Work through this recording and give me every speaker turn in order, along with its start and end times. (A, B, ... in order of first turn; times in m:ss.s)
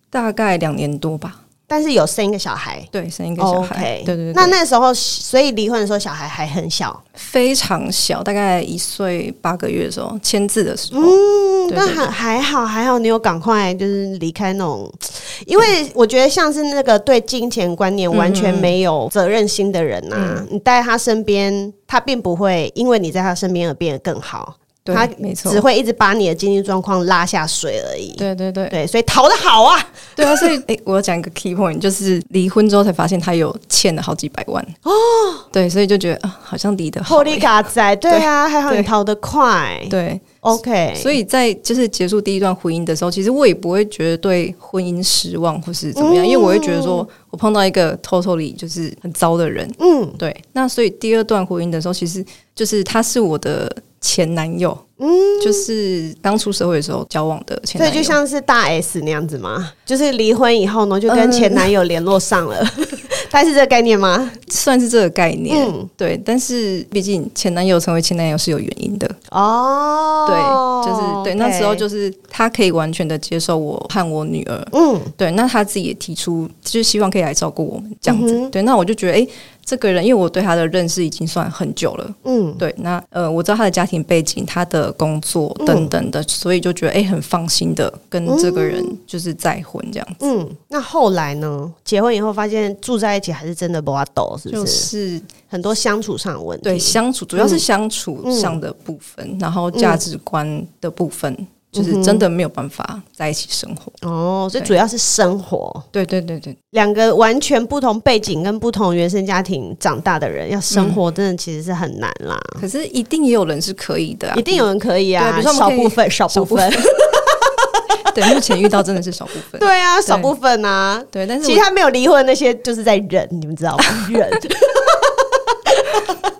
0:00.1-0:01.4 A
0:01.7-0:07.0 B
0:02.9-0:04.5 A
0:07.2-0:12.1 A
0:10.9-0:30.6 B
0:18.1-0:18.7 A
0:20.1-0:20.4 A
0:24.8-0:25.6 A
0:28.2-0:28.8 A
0:30.2-0:34.7 A
0:34.8-0:35.4 B
0:35.5-0:37.5 A
0:37.1-0:41.1 B
0:38.1-0:38.9 A
0:39.9-0:40.4 A
0:41.0-0:54.8 A
0:46.0-0:47.1 B
0:49.8-0:50.2 B
0:55.0-0:55.6 B
0:55.4-0:58.2 A
0:57.8-1:04.4 B
1:01.1-1:01.7 A
1:04.5-1:09.2 A
1:05.5-1:05.9 B
1:09.3-1:11.8 B
1:10.2-1:30.2 A
1:14.7-1:15.1 B
1:18.0-1:18.5 B
1:22.2-1:22.6 B
1:25.6-1:25.9 B
1:28.3-1:29.0 B
1:30.2-1:34.9 B
1:34.5-1:35.3 A
1:35.5-1:37.6 B
1:36.6-1:43.9 A
1:38.2-1:38.6 B
1:39.7-1:40.0 B
1:41.7-1:42.2 B
1:44.0-1:45.8 B
1:45.9-1:46.6 A
1:46.7-1:52.6 B
1:50.7-1:51.0 A
1:52.6-1:54.6 A
1:54.3-1:57.7 B
1:55.2-1:56.9 A
1:58.1-2:00.3 A
1:59.6-2:06.2 B
2:01.1-2:01.6 A